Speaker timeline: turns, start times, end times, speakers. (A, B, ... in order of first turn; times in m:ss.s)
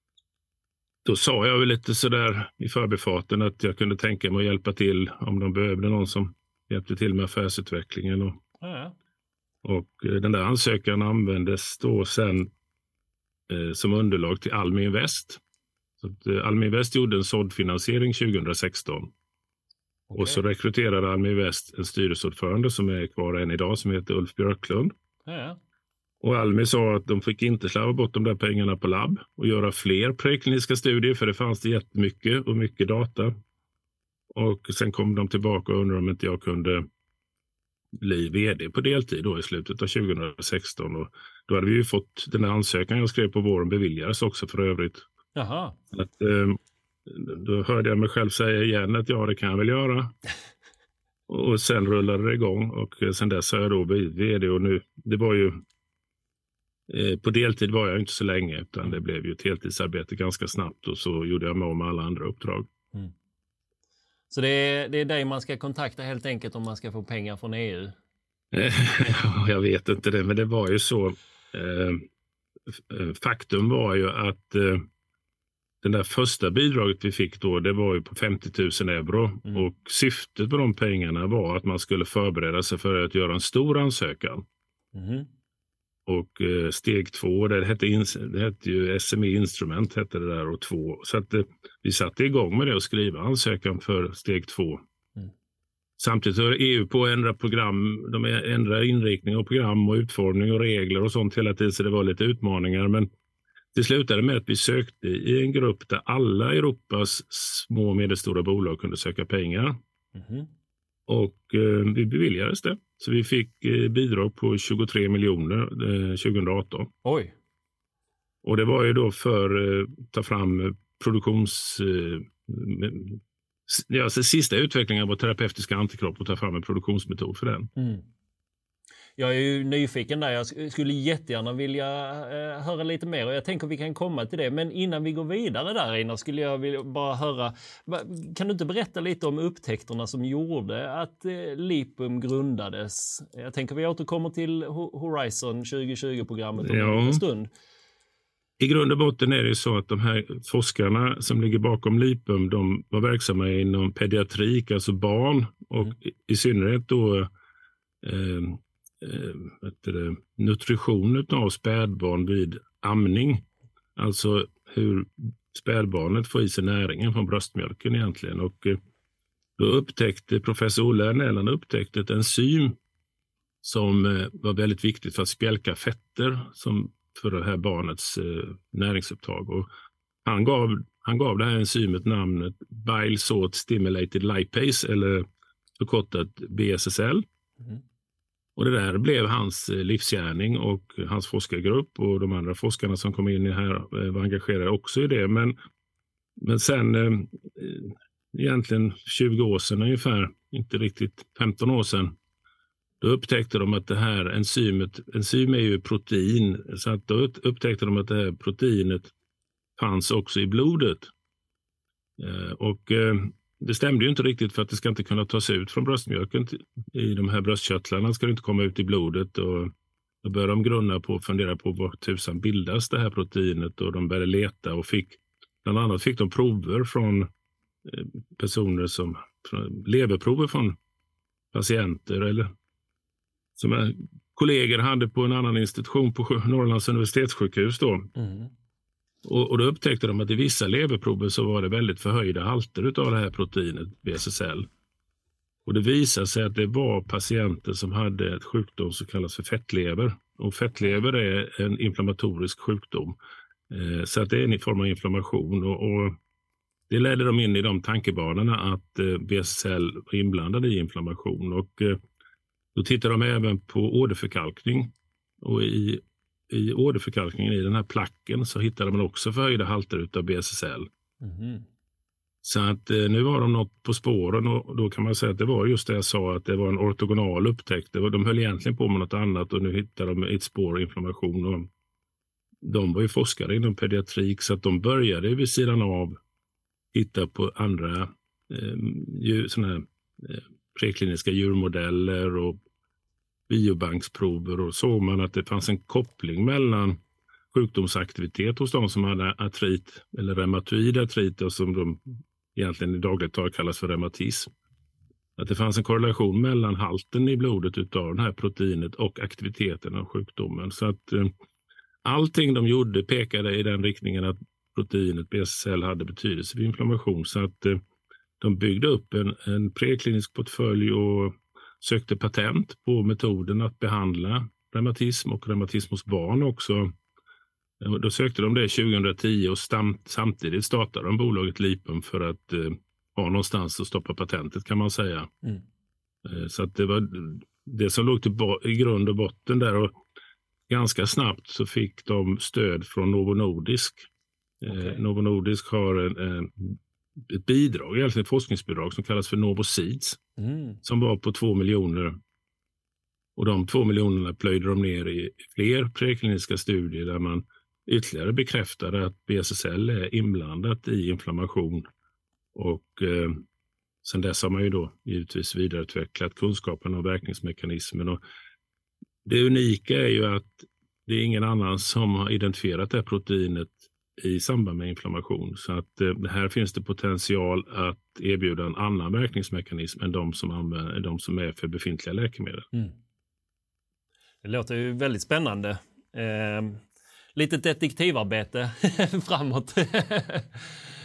0:01.0-0:08.4 A
0:08.6-0:09.0 B
0:09.6-0:12.5 A
0:13.5-0:15.4 A
0:16.0-0:19.1 A
0:20.1-0:20.4 B
0:20.2-0:24.9 A
0:25.3-0:25.6 B
0:26.2-0:33.3 A
0:34.3-0:36.9 A
0:38.0-0:45.0 A
0:45.4-0:45.8 B
0:45.9-0:50.2 A
0:51.3-0:55.6 A
0:56.9-1:02.7 A
1:04.3-1:08.0 B
1:08.5-1:12.1 A
1:12.7-1:14.9 A
1:15.8-1:24.4 A
1:24.9-1:25.3 B
1:26.1-1:34.8 A
1:36.0-1:43.1 A
1:43.7-1:49.8 A
1:50.2-1:50.5 B
1:51.1-1:56.9 A
1:57.0-1:57.3 B
1:58.4-2:07.7 A
2:07.8-2:08.1 B
2:09.2-2:27.5 B
2:26.6-2:27.2 A
2:28.6-2:37.3 A
2:38.0-2:48.8 A
2:49.6-2:52.8 A
2:53.6-2:59.7 A
3:00.2-3:05.3 A
3:05.8-3:07.2 A
3:08.6-3:15.6 A
3:16.4-3:22.2 A
3:23.0-3:29.1 A
3:29.8-3:31.1 A
3:32.2-3:39.7 A
3:40.2-3:47.3 A
3:47.8-3:50.8 A
3:51.5-3:52.5 A
3:53.6-3:58.1 A
3:58.2-3:58.5 B
3:59.2-4:04.7 A
4:05.7-4:13.2 A
4:13.7-4:16.2 A
4:16.9-4:22.0 A
4:22.8-4:30.9 A
4:31.2-4:31.7 B
4:32.4-4:41.7 A
4:42.6-4:46.2 A
4:46.9-4:52.6 A
4:53.5-4:57.0 A
4:57.5-5:02.0 A
5:02.6-5:04.5 A
5:05.4-5:11.3 A
5:12.0-5:17.8 A
5:18.4-5:26.9 A
5:27.8-5:35.3 A
5:36.2-5:40.0 A
5:40.7-5:44.1 A
5:44.6-5:50.2 A
5:44.7-5:45.0 B
5:50.4-5:50.8 B
5:50.8-5:52.2 A
5:53.4-6:01.9 A
6:02.5-6:03.4 A
6:04.0-6:08.2 A
6:09.2-6:22.7 A
6:24.4-6:30.8 B